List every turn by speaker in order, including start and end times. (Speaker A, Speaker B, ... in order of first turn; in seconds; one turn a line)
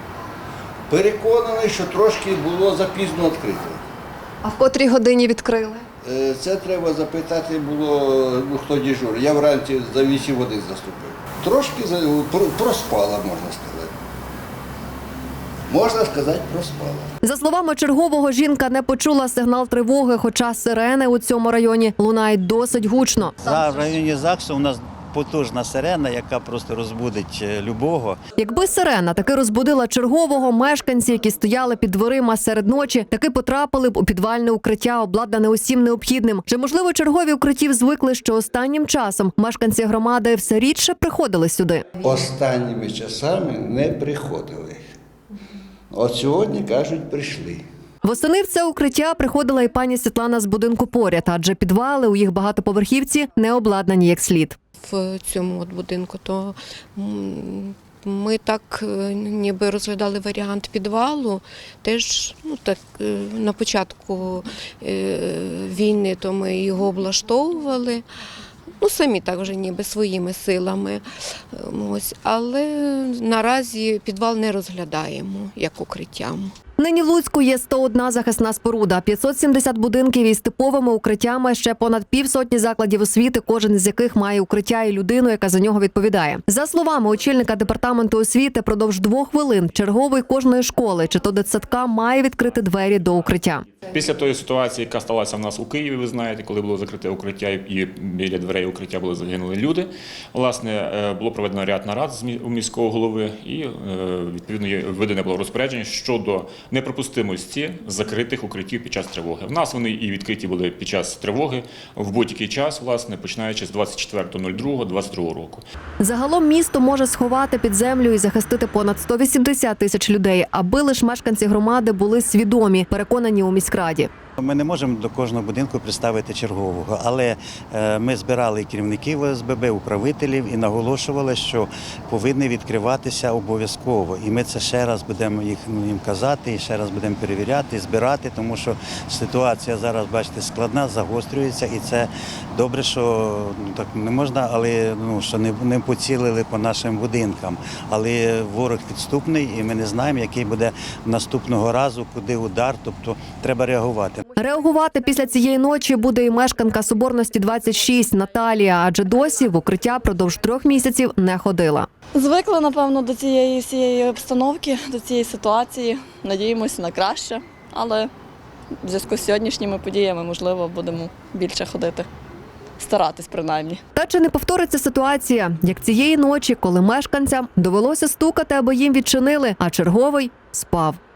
Speaker A: 0.9-3.8
Speaker B: 4.4-5.8
Speaker A: 6.0-13.9
Speaker A: 15.7-17.1
Speaker B: 17.2-23.4
Speaker C: 23.4-28.2
Speaker B: 28.4-41.9
Speaker A: 42.0-44.8
Speaker A: 45.9-47.6
Speaker B: 48.0-54.5
Speaker D: 54.8-68.0
Speaker D: 68.8-76.5
Speaker B: 76.8-93.6
Speaker E: 93.9-115.6
Speaker B: 116.0-124.1
Speaker C: 124.4-154.2
Speaker B: 154.4-161.9
Speaker F: 162.2-168.1
Speaker F: 168.9-172.1
Speaker F: 172.8-173.8
Speaker B: 173.9-181.0